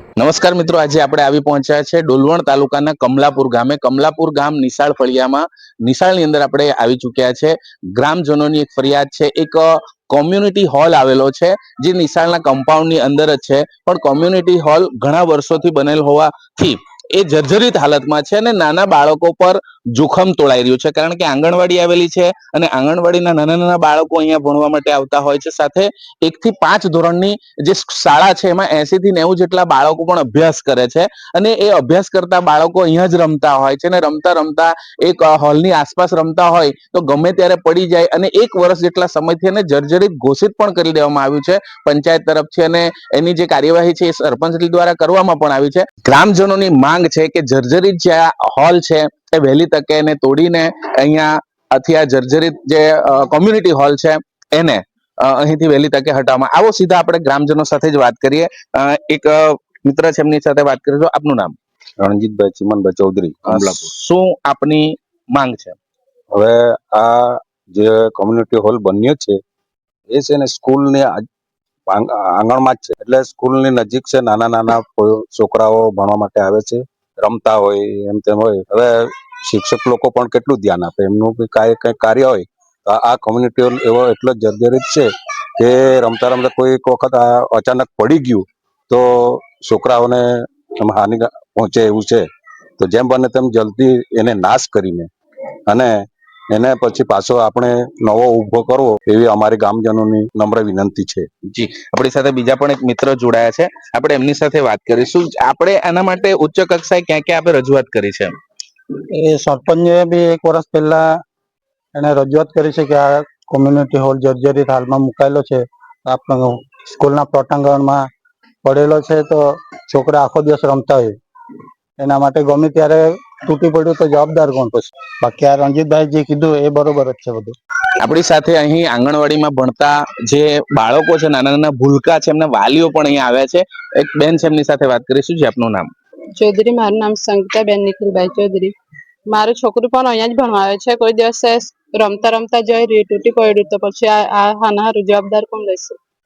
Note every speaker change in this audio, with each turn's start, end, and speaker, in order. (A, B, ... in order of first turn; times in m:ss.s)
0:00.2-1:01.5 A
1:02.0-1:03.9 B
1:03.5-1:05.8 A
1:06.3-1:09.4 B
1:10.1-1:11.2 B
1:11.9-1:32.2 B
1:32.8-1:35.1 B
1:35.7-1:35.9 B
1:36.5-1:41.3 B
1:41.5-1:48.3 A
1:49.1-1:51.2 C
1:51.9-1:58.1 C
1:58.6-2:01.2 C
2:02.0-2:07.6 C
2:08.0-2:15.9 A
2:16.4-2:18.7 D
2:19.3-2:26.0 D